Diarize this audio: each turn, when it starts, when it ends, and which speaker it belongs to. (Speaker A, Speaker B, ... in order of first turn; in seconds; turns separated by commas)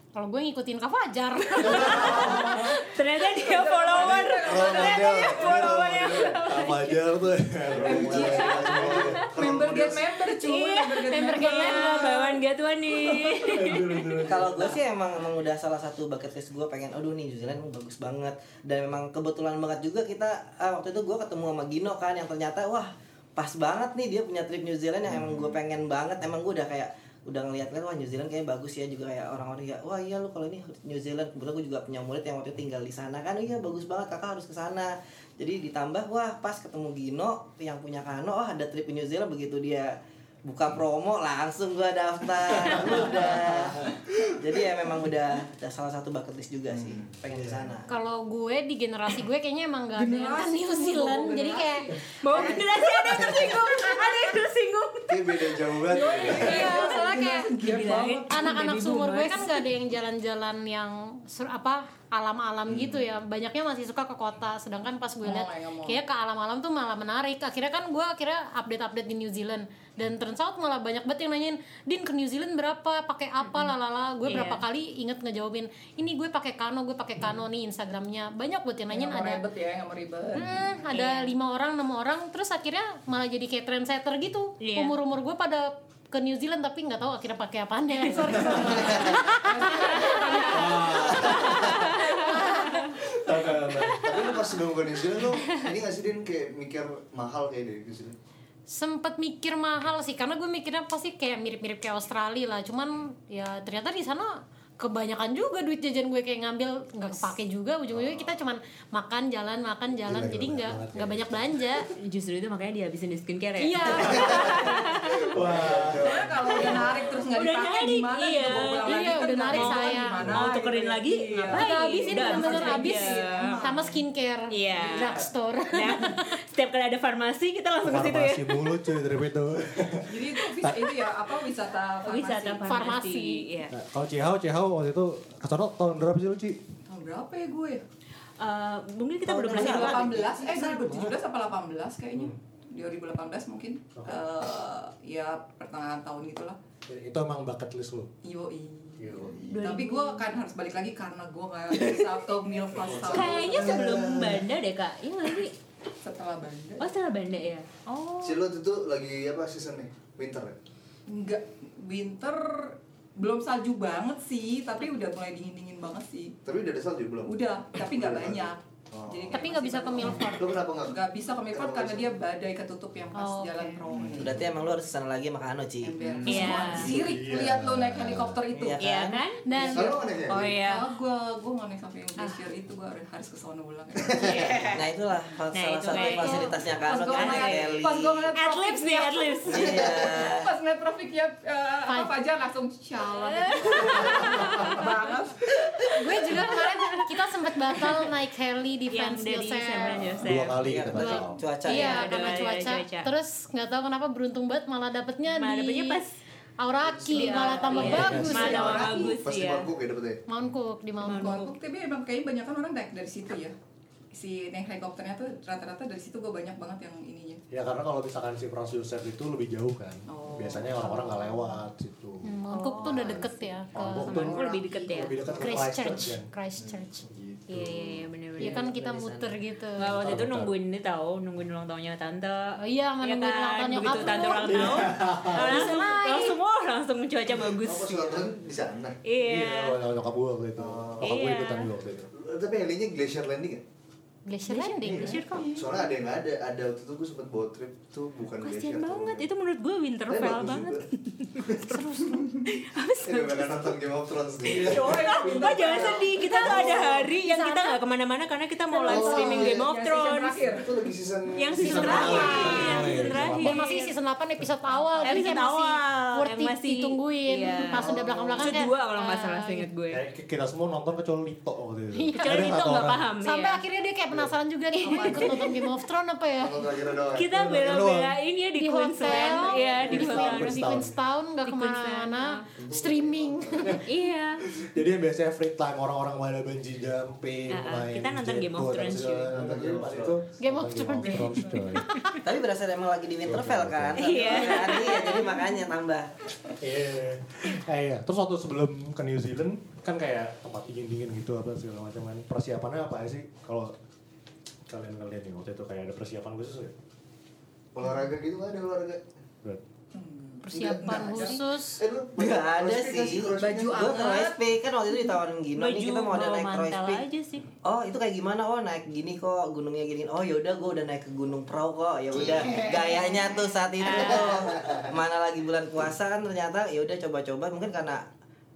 Speaker A: 0.1-2.8, Speaker B: 1.6-7.2, Speaker C: 1.9-2.6, Speaker D: 3.3-5.8, Speaker E: 4.5-6.4, Speaker C: 4.6-9.5, Speaker E: 7.7-10.0, Speaker D: 7.8-12.1, Speaker B: 8.1-9.3, Speaker B: 10.2-14.2, Speaker A: 11.1-12.4, Speaker D: 13.1-13.5, Speaker C: 13.4-14.8, Speaker F: 14.2-47.9, Speaker C: 42.8-43.5, Speaker E: 46.7-47.1, Speaker C: 47.3-47.7, Speaker A: 47.9-51.9, Speaker D: 49.9-53.5, Speaker B: 52.2-59.7, Speaker E: 52.3-53.5, Speaker D: 54.1-54.3, Speaker E: 55.1-56.7, Speaker D: 55.9-58.5, Speaker A: 56.4-57.5, Speaker A: 58.3-79.4, Speaker E: 62.7-63.0, Speaker D: 65.2-66.0, Speaker B: 73.4-74.6, Speaker D: 78.9-80.7, Speaker A: 80.3-92.9, Speaker B: 80.9-81.4, Speaker B: 84.6-85.0, Speaker D: 88.2-91.3, Speaker B: 90.2-90.5, Speaker C: 90.5-92.0, Speaker B: 91.0-92.9, Speaker C: 93.0-94.2, Speaker E: 93.9-98.2, Speaker B: 94.0-94.5, Speaker B: 95.3-95.7, Speaker A: 98.7-111.9, Speaker C: 110.0-111.2, Speaker B: 111.9-115.3, Speaker A: 113.6-115.1, Speaker E: 113.9-116.9, Speaker C: 114.1-114.5, Speaker C: 115.2-116.3, Speaker D: 116.0-124.0, Speaker B: 116.6-123.8, Speaker A: 118.8-120.3, Speaker A: 121.5-126.3, Speaker B: 124.5-129.0, Speaker D: 124.8-125.2, Speaker C: 127.8-131.1, Speaker D: 130.0-132.9, Speaker B: 132.1-133.7, Speaker A: 132.7-133.4, Speaker C: 133.7-136.6, Speaker D: 136.9-137.8, Speaker B: 138.4-140.1, Speaker F: 139.2-141.1, Speaker D: 139.5-146.6, Speaker C: 143.9-144.2, Speaker C: 146.9-148.1, Speaker D: 148.2-153.8, Speaker C: 149.0-149.4, Speaker B: 149.4-150.3, Speaker F: 151.7-152.1, Speaker E: 152.8-154.4, Speaker B: 153.1-155.5, Speaker D: 156.0-156.9, Speaker B: 156.8-158.4, Speaker E: 158.2-160.6, Speaker D: 161.1-166.3, Speaker E: 166.4-169.4, Speaker D: 167.2-174.4, Speaker A: 169.3-170.6, Speaker E: 170.1-172.1, Speaker A: 173.1-173.8, Speaker E: 173.9-174.2, Speaker F: 174.2-175.9, Speaker D: 175.8-178.8, Speaker E: 176.0-176.9, Speaker B: 176.2-177.0, Speaker C: 176.8-178.4, Speaker F: 178.5-179.2, Speaker B: 178.8-179.4, Speaker A: 179.4-180.0, Speaker D: 179.6-184.6, Speaker E: 179.6-180.4, Speaker B: 180.3-180.9, Speaker E: 184.1-184.5, Speaker B: 184.1-184.9, Speaker F: 184.6-188.3, Speaker B: 185.5-186.6, Speaker A: 185.9-186.6, Speaker D: 186.8-195.5, Speaker B: 187.1-189.8, Speaker F: 189.5-190.5, Speaker E: 189.6-190.1, Speaker A: 191.9-192.1, Speaker B: 193.1-195.1, Speaker B: 195.8-198.1, Speaker A: 195.9-200.2, Speaker B: 198.9-200.6, Speaker C: 200.2-201.4, Speaker F: 200.6-202.4, Speaker A: 200.9-206.0, Speaker B: 201.6-203.1, Speaker B: 205.3-206.1, Speaker A: 206.6-209.1, Speaker E: 206.8-210.2, Speaker B: 207.1-209.7, Speaker D: 207.4-208.6, Speaker C: 207.8-208.8, Speaker A: 210.3-211.5, Speaker B: 211.0-211.5, Speaker D: 211.2-213.6, Speaker D: 214.1-217.4, Speaker C: 217.5-222.3, Speaker D: 220.1-221.1, Speaker A: 221.1-221.6, Speaker A: 222.2-224.6, Speaker B: 222.5-223.4, Speaker E: 222.9-223.2, Speaker C: 223.7-224.4, Speaker B: 223.9-225.6, Speaker D: 224.3-224.9, Speaker C: 224.9-226.3, Speaker A: 225.3-227.1, Speaker E: 226.6-226.8, Speaker C: 227.1-228.1, Speaker B: 227.5-228.6, Speaker F: 228.4-229.4, Speaker A: 228.4-229.9, Speaker B: 229.8-238.3, Speaker C: 229.9-230.5, Speaker A: 232.6-236.4, Speaker C: 234.4-235.7, Speaker E: 237.4-238.9, Speaker B: 239.0-239.8, Speaker C: 239.2-242.1, Speaker E: 240.6-241.3, Speaker B: 241.0-241.7, Speaker E: 242.1-243.6, Speaker A: 244.2-245.2, Speaker B: 244.5-245.5, Speaker D: 245.2-245.9, Speaker E: 245.5-249.3, Speaker B: 248.4-253.8, Speaker E: 250.1-250.8, Speaker E: 251.4-251.9, Speaker E: 253.0-257.1, Speaker D: 254.4-256.6, Speaker B: 254.5-260.5, Speaker A: 256.4-257.8, Speaker A: 258.7-259.3, Speaker E: 258.9-259.7, Speaker D: 258.9-260.9, Speaker E: 260.5-263.3, Speaker B: 261.4-263.9, Speaker C: 261.6-263.6, Speaker A: 261.6-269.7, Speaker D: 264.9-265.2, Speaker B: 265.0-267.9, Speaker E: 267.8-268.6, Speaker B: 268.4-270.0, Speaker C: 269.9-273.0, Speaker A: 271.9-276.7, Speaker B: 272.1-273.6, Speaker D: 274.8-275.7, Speaker B: 274.8-275.6, Speaker E: 276.4-277.3, Speaker B: 277.1-280.7, Speaker C: 277.1-278.1, Speaker A: 278.6-283.8, Speaker D: 279.2-279.8, Speaker C: 279.9-280.9, Speaker B: 281.4-282.5, Speaker E: 282.6-283.8, Speaker B: 283.9-284.4, Speaker C: 284.6-291.9, Speaker B: 287.5-289.3, Speaker E: 289.3-290.2, Speaker A: 290.4-292.2, Speaker D: 291.0-291.7, Speaker F: 292.2-296.1, Speaker C: 293.2-294.0, Speaker B: 293.9-295.5, Speaker C: 296.6-303.7, Speaker C: 304.7-306.7, Speaker E: 307.7-309.0, Speaker D: 309.9-311.4, Speaker A: 310.5-311.8, Speaker E: 310.5-314.1, Speaker F: 312.2-317.0, Speaker D: 313.4-314.4, Speaker B: 315.6-317.5, Speaker F: 317.6-328.0, Speaker E: 322.1-322.9, Speaker B: 323.8-324.5, Speaker E: 323.9-324.9